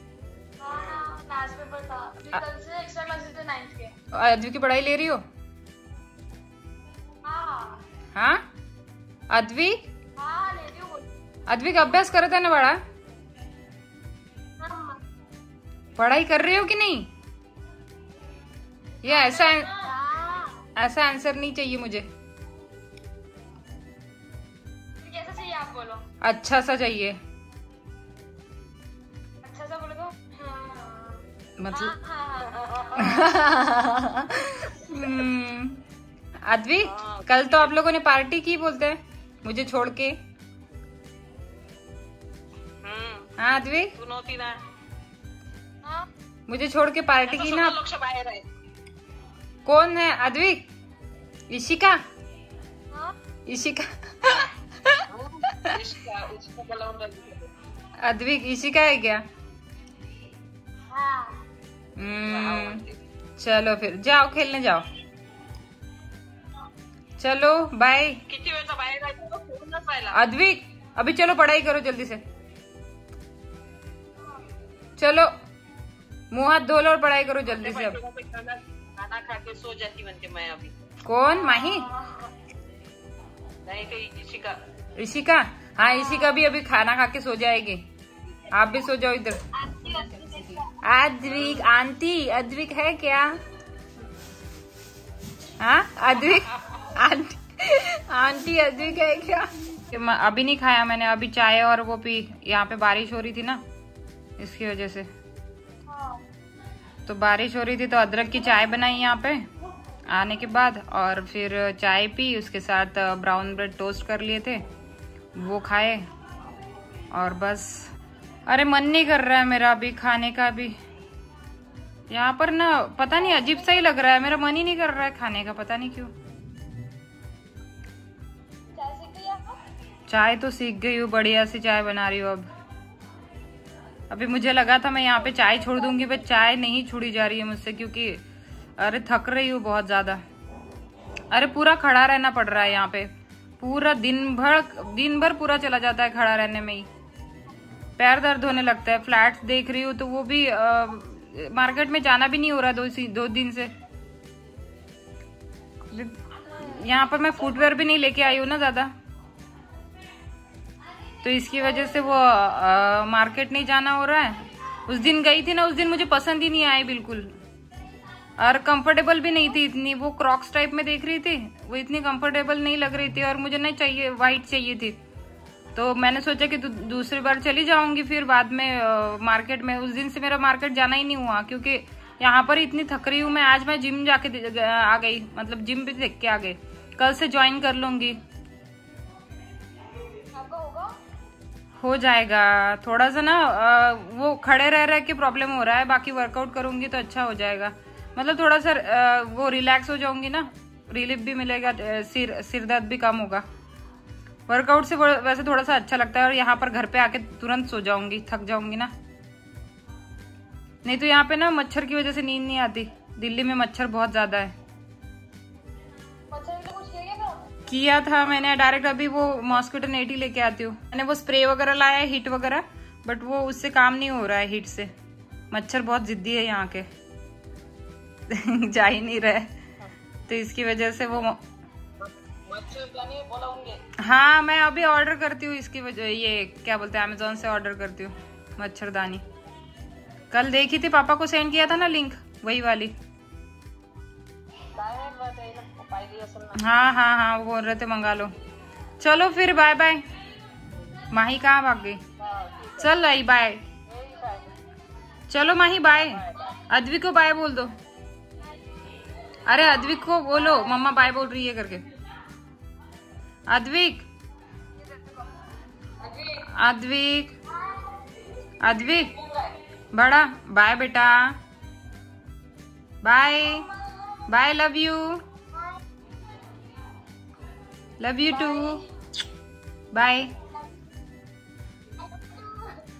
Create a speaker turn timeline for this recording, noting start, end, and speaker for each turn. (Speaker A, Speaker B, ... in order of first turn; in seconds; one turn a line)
Speaker A: 0.6-3.9
Speaker B: 0.7-1.0
Speaker C: 4.1-5.2
Speaker A: 7.2-7.8
Speaker C: 8.1-8.4
Speaker C: 9.3-9.8
Speaker A: 10.2-11.1
Speaker C: 11.5-12.8
Speaker A: 14.6-15.0
Speaker C: 16.0-17.1
Speaker C: 19.0-19.7
Speaker A: 19.0-20.6
Speaker C: 20.8-22.1
Speaker A: 25.0-26.0
Speaker C: 26.2-27.2
Speaker A: 29.4-33.2
Speaker C: 31.6-31.9
Speaker B: 32.8-33.2
Speaker C: 33.0-35.8
Speaker C: 36.4-40.2
Speaker B: 36.8-37.7
Speaker B: 42.8-43.3
Speaker C: 43.4-43.9
Speaker B: 44.0-44.6
Speaker C: 46.5-47.8
Speaker B: 47.2-48.5
Speaker C: 49.6-50.6
Speaker C: 51.5-52.0
Speaker C: 53.5-55.0
Speaker B: 55.1-57.5
Speaker C: 58.0-59.2
Speaker A: 60.9-61.4
Speaker C: 62.0-62.8
Speaker B: 62.2-63.0
Speaker C: 63.4-64.9
Speaker C: 67.2-68.2
Speaker B: 68.3-70.2
Speaker C: 70.1-72.2
Speaker C: 75.0-75.3
Speaker C: 76.3-78.0
Speaker B: 77.5-80.7
Speaker C: 81.0-81.9
Speaker A: 81.5-82.1
Speaker B: 83.7-84.6
Speaker C: 85.0-87.8
Speaker A: 85.8-86.5
Speaker C: 88.5-89.4
Speaker A: 89.6-90.6
Speaker B: 89.8-90.6
Speaker C: 90.8-93.4
Speaker B: 91.2-91.7
Speaker C: 95.6-103.6
Speaker C: 104.4-105.1
Speaker A: 105.9-106.2
Speaker C: 107.1-109.5
Speaker C: 110.1-114.7
Speaker C: 115.3-116.1
Speaker C: 117.1-117.9
Speaker C: 118.5-120.8
Speaker C: 122.1-126.1
Speaker A: 128.7-129.6
Speaker C: 130.1-132.5
Speaker C: 134.1-138.2
Speaker A: 135.2-136.3
Speaker C: 138.8-140.2
Speaker C: 141.3-146.9
Speaker C: 148.0-153.7
Speaker C: 155.9-158.9
Speaker C: 161.2-167.3
Speaker C: 168.4-175.0
Speaker C: 175.7-188.2
Speaker A: 190.3-190.9
Speaker C: 191.8-203.4
Speaker C: 204.5-208.9
Speaker C: 210.8-214.5
Speaker A: 216.3-217.4
Speaker C: 217.7-224.9
Speaker C: 225.5-226.9
Speaker C: 228.3-229.5
Speaker C: 230.3-231.4
Speaker B: 232.0-233.8
Speaker C: 234.0-239.2
Speaker C: 240.3-242.9
Speaker B: 244.8-246.6
Speaker C: 246.6-248.3
Speaker C: 249.0-250.0
Speaker C: 251.1-252.0
Speaker B: 252.2-252.9
Speaker C: 252.8-253.6
Speaker B: 253.9-254.5
Speaker C: 255.3-257.7
Speaker B: 255.8-256.5
Speaker C: 259.4-261.9
Speaker C: 263.5-264.1
Speaker B: 266.1-266.3
Speaker C: 266.4-267.3
Speaker C: 268.6-269.1
Speaker C: 269.9-271.4
Speaker C: 273.0-273.7
Speaker C: 274.3-275.2
Speaker C: 278.0-278.8
Speaker A: 278.3-278.9
Speaker C: 279.9-280.3
Speaker A: 282.0-282.7